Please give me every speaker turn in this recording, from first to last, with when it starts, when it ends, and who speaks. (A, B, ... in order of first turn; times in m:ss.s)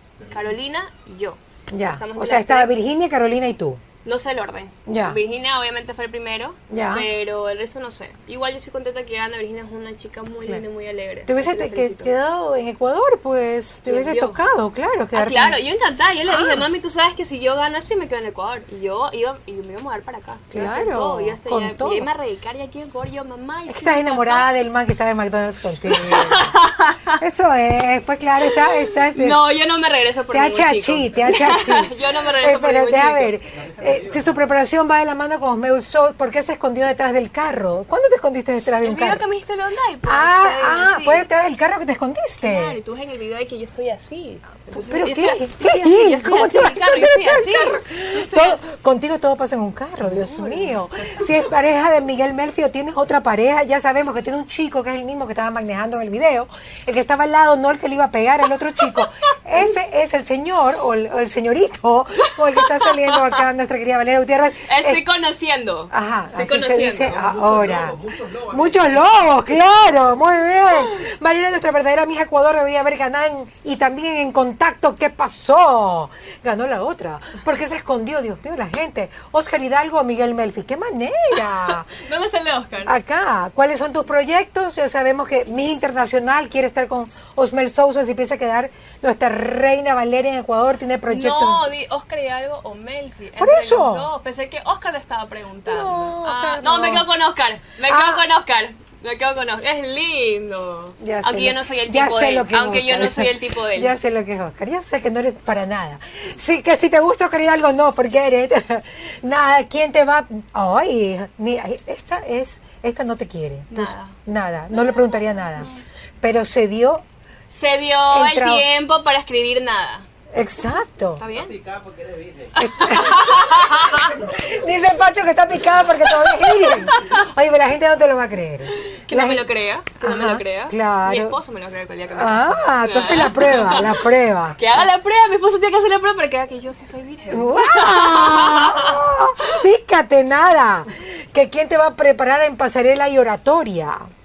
0:00.2-0:02.7 A
0:01.7-0:03.8 B
0:04.0-0:12.1 A
0:04.9-0:05.2 B
0:06.7-0:07.1 B
0:11.2-0:15.6 B
0:13.8-0:14.4 A
0:15.1-0:24.5 A
0:16.3-0:16.6 B
0:20.5-0:22.1 B
0:23.7-0:26.5 B
0:25.9-0:27.2 A
0:27.2-0:29.4 B
0:28.4-0:33.4 A
0:30.3-0:39.2 B
0:33.5-0:34.4 C
0:38.8-0:41.2 A
0:40.0-0:42.8 B
0:42.4-0:48.7 A
0:44.7-1:05.0 B
0:50.0-0:51.3 A
1:02.2-1:03.4 A
1:04.6-1:07.3 A
1:05.9-1:08.0 B
1:07.1-1:09.0 C
1:08.5-1:21.9 B
1:21.9-1:23.0 A
1:22.8-1:31.6 B
1:31.1-1:43.9 A
1:33.4-1:34.1 B
1:35.6-1:37.1 B
1:37.8-1:38.2 B
1:41.0-1:55.7 B
1:53.7-1:54.2 A
1:54.7-1:55.8 A
1:56.2-1:57.0 B
1:57.5-2:00.0 A
1:58.1-1:58.6 B
2:00.3-2:01.2 B
2:01.2-2:01.6 A
2:01.3-2:03.2 C
2:02.6-2:04.2 A
2:02.6-2:09.4 B
2:04.2-2:04.5 C
2:06.0-2:07.2 A
2:08.8-2:14.0 A
2:10.0-2:11.4 B
2:12.1-2:14.8 B
2:14.6-2:19.6 A
2:17.3-2:24.1 B